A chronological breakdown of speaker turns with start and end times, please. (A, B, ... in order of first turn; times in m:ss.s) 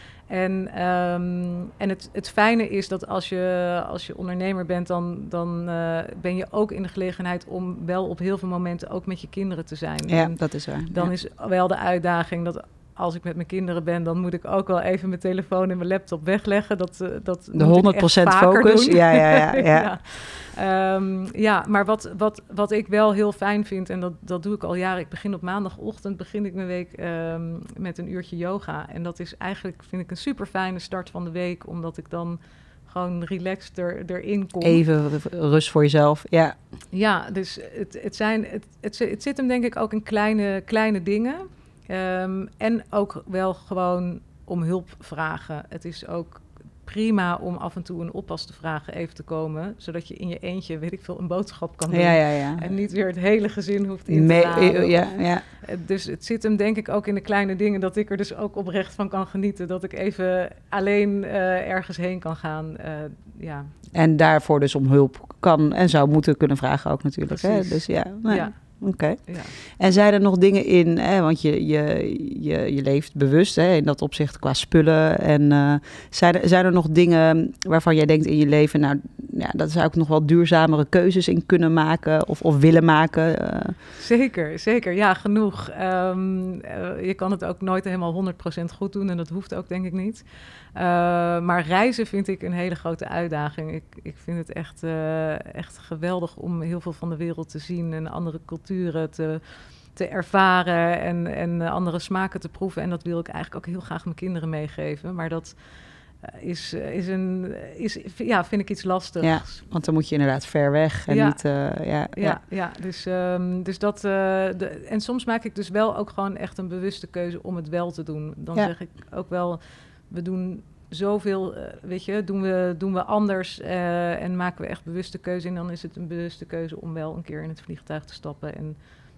0:00.3-0:34.8 A
0:10.1-0:11.1 B
0:17.5-0:19.9 B
0:34.6-0:36.5 B
0:36.9-1:03.7 A
0:51.9-0:52.7 B
0:54.1-0:55.4 B
1:03.9-1:23.8 B
1:07.3-1:09.5 A
1:24.0-1:30.2 A
1:30.7-1:39.4 A
1:39.9-1:45.6 A
1:46.2-1:49.6 A
1:49.2-1:52.4 B
1:51.1-2:08.8 A